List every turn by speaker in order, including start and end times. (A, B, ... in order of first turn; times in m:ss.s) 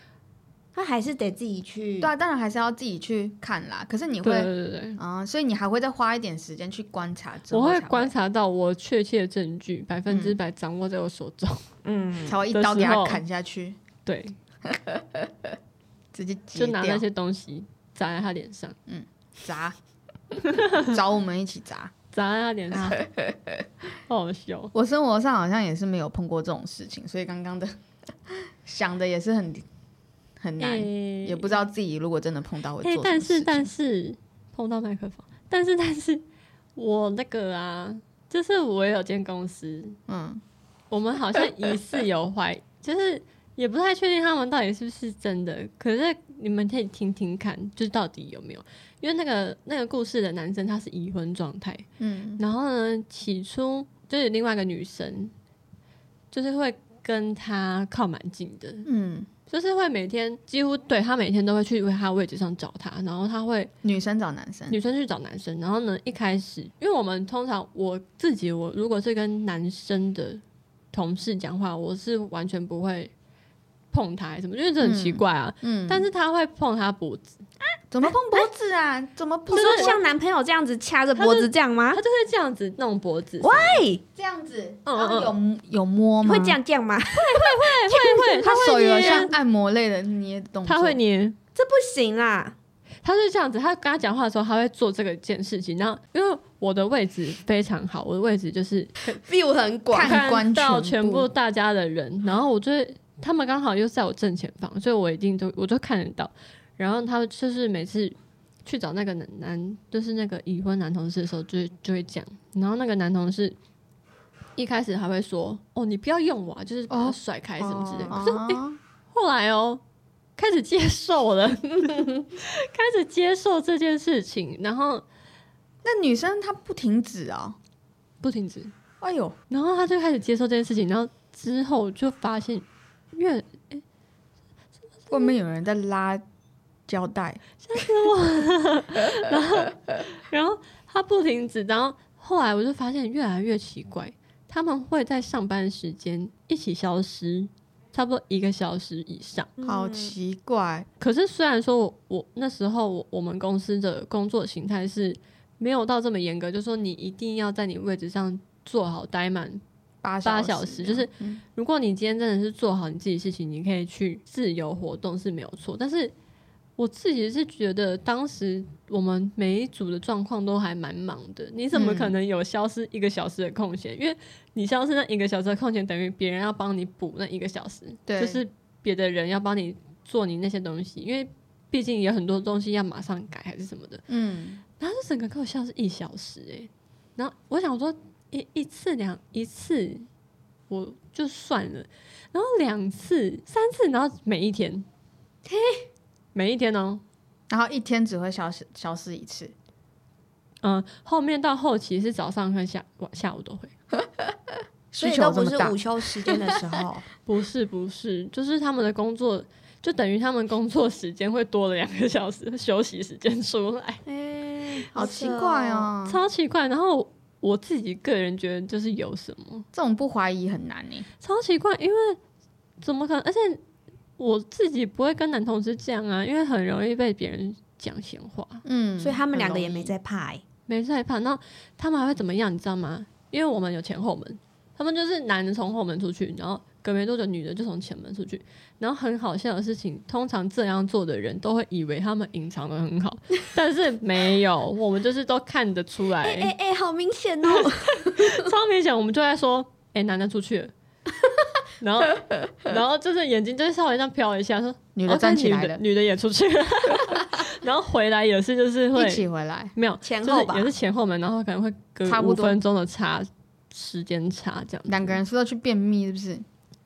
0:00.7-0:02.1 A
0:02.0-0:08.1 B
0:04.2-0:05.0 C
0:07.5-0:11.7 C
0:10.1-0:10.4 B
0:11.8-0:12.4 A
0:12.2-0:13.8 B
0:12.5-0:13.2 C
0:14.0-0:14.4 C
0:14.7-0:15.3 B
0:16.1-0:17.0 B
0:16.5-0:18.8 C
0:18.9-0:19.7 B
0:20.4-0:20.8 C
0:20.7-0:21.9 B
0:22.1-0:23.0 C
0:22.7-0:23.6 B
0:24.1-0:24.7 C
0:24.7-0:27.7 B
0:28.3-0:29.6 B
0:30.4-0:33.7 B
0:30.6-0:31.6 C
0:32.8-0:36.2 C
0:36.8-0:40.0 C
0:40.1-0:40.4 B
0:40.9-0:51.8 C
0:52.0-0:52.4 B
0:52.4-0:55.3 C
0:56.3-0:58.9 C
0:58.8-0:59.3 B
0:59.5-1:03.7 C
1:03.8-1:04.8 B
1:04.7-1:10.4 C
1:10.9-1:13.1 C
1:13.9-1:17.4 C
1:14.8-1:16.1 B
1:17.9-1:20.0 B
1:18.0-1:18.5 A
1:19.5-1:22.0 A
1:19.5-1:19.9 C
1:21.2-1:23.8 C
1:23.4-1:24.0 A
1:24.1-1:26.6 B
1:24.8-1:25.3 C
1:26.2-1:29.3 A
1:27.1-1:29.3 C
1:28.4-1:31.0 B
1:30.6-1:31.4 C
1:31.5-1:32.6 A
1:33.0-1:39.2 C
1:39.2-1:40.2 A
1:39.9-1:41.3 B
1:40.0-1:53.6 C
1:54.6-1:58.6 C
1:56.9-1:57.2 B
1:57.6-1:58.2 A
1:58.1-1:58.8 B
1:59.1-1:59.8 C
2:00.4-2:05.0 C
2:05.8-2:07.6 B
2:08.2-2:08.7 C
2:09.0-2:09.4 B
2:09.5-2:13.8 C
2:15.1-2:15.3 C
2:15.1-2:16.2 B
2:16.9-2:17.8 B
2:17.6-2:29.5 C
2:29.6-2:30.1 A
2:29.6-2:30.9 B
2:31.0-2:39.6 C
2:40.0-2:41.4 B
2:40.2-2:46.1 C
2:46.8-3:04.0 C
2:51.7-2:52.1 B
2:58.1-2:58.4 B
3:04.1-3:04.6 B
3:04.8-3:10.1 C
3:10.7-3:14.8 C
3:15.4-3:15.8 A
3:16.3-3:17.0 C
3:17.5-3:19.5 B
3:20.6-3:23.7 C
3:24.9-3:26.6 B
3:25.0-3:27.0 A
3:27.2-3:34.0 C
3:34.1-3:35.9 A
3:35.0-3:36.2 B
3:36.0-3:39.6 C
3:39.7-3:41.1 B
3:41.2-3:42.2 C
3:42.8-3:43.6 C
3:44.2-3:48.6 C
3:48.6-3:49.9 B
3:49.0-3:50.4 A
3:50.7-4:06.5 C
4:06.2-4:08.0 A
4:07.4-4:10.7 C
4:11.8-4:25.2 C
4:15.0-4:15.8 B
4:18.9-4:19.7 B
4:20.0-4:20.7 A
4:22.0-4:22.6 B
4:24.9-4:26.4 B